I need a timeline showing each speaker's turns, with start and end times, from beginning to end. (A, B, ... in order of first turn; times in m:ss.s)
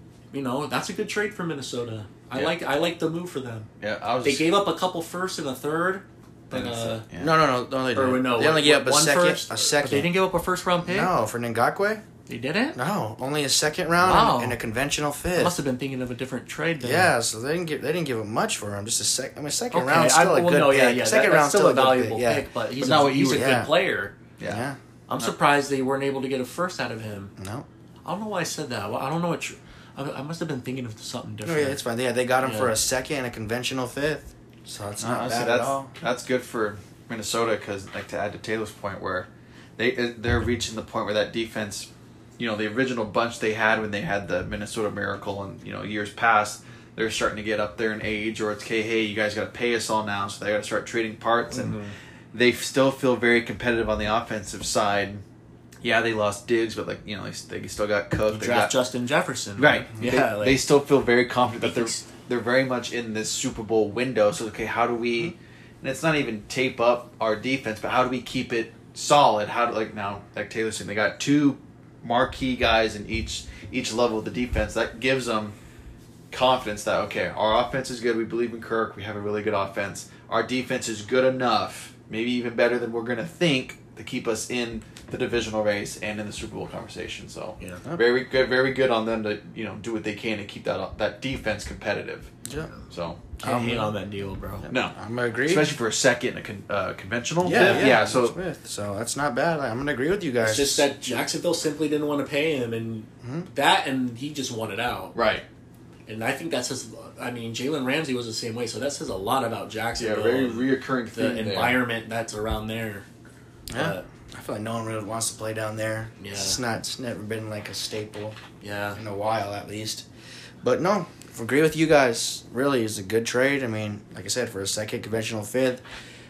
0:00.3-0:03.7 A
0:03.8-0:04.5 B
0:04.2-0:07.0 A
0:06.5-0:07.4 B
0:07.2-0:10.1 C
0:07.9-0:11.1 A
0:10.8-0:12.0 C
0:12.3-0:12.8 A
0:12.8-0:15.6 C
0:14.0-0:14.6 A
0:15.4-0:17.1 A
0:16.8-0:22.5 C
0:19.7-0:24.2 A
0:22.8-0:23.6 B
0:23.1-0:23.7 C
0:24.4-0:24.6 B
0:24.4-0:24.8 C
0:25.1-0:27.3 A
0:27.4-0:27.7 C
0:28.0-0:31.8 A
0:31.4-0:35.9 C
0:32.4-0:32.7 A
0:35.0-0:41.9 B
0:42.4-0:51.8 B
0:51.5-0:51.9 A
0:52.3-0:55.2 B
0:55.8-0:58.8 B
0:58.3-1:00.6 A
0:59.6-1:15.6 B
1:01.6-1:02.0 A
1:16.3-1:32.3 B
1:27.6-1:27.8 A
1:32.5-1:32.7 C
1:32.9-1:33.2 B
1:33.4-1:33.9 C
1:33.4-1:34.7 A
1:34.6-1:35.7 C
1:34.7-1:38.4 B
1:37.4-1:40.9 C
1:37.5-1:38.0 A
1:40.4-1:45.2 A
1:43.2-1:43.5 C
1:45.1-1:45.4 B
1:46.1-1:53.1 A
1:50.0-1:51.8 B
1:53.7-1:58.4 C
1:53.7-1:54.0 A
1:56.2-1:56.6 A
1:58.6-1:59.0 A
1:59.0-2:00.0 C
2:00.6-2:05.8 C